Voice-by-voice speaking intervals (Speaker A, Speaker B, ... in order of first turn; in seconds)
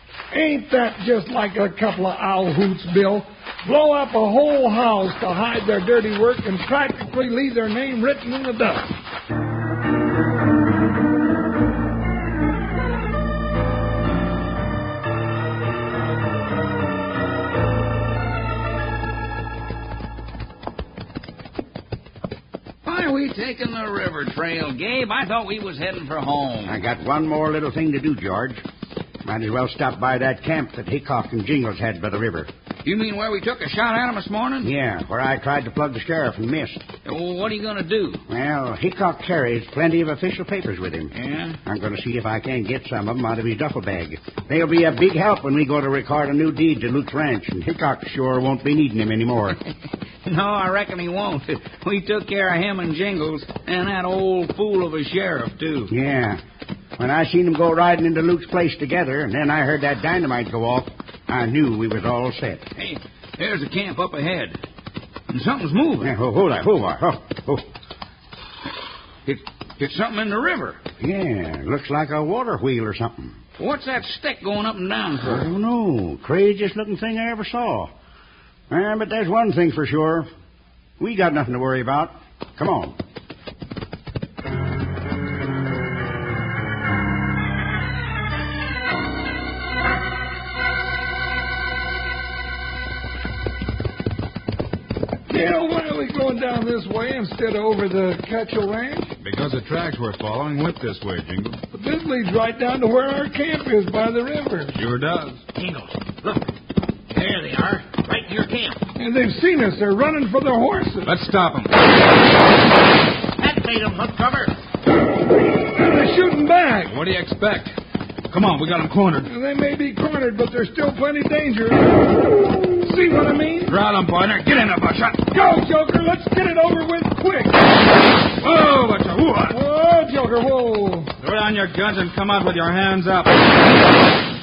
Speaker A: 0.3-8.9, 95.3-99.1, 101.7-104.8, 109.0-111.1, 115.5-116.9, 119.2-123.8, 125.3-127.6, 129.5-131.1
Speaker B: 22.8-26.8, 32.8-34.7, 37.0-38.2, 41.1-41.6, 50.2-55.9, 62.8-64.6, 65.3-66.1, 69.2-70.8, 73.6-75.5
Speaker C: 26.6-28.6, 29.2-32.5, 34.6-36.8, 38.3-49.6, 55.9-56.4, 57.0-62.6, 66.0-67.6, 71.0-73.3, 75.2-77.9, 78.7-80.3, 81.0-83.0
Speaker D: 99.2-101.6, 104.8-105.4, 111.0-111.7, 116.9-117.8, 118.3-119.3, 123.7-125.2, 128.4-129.6, 131.2-133.4
Speaker E: 105.5-106.5, 107.1-108.8, 113.4-114.5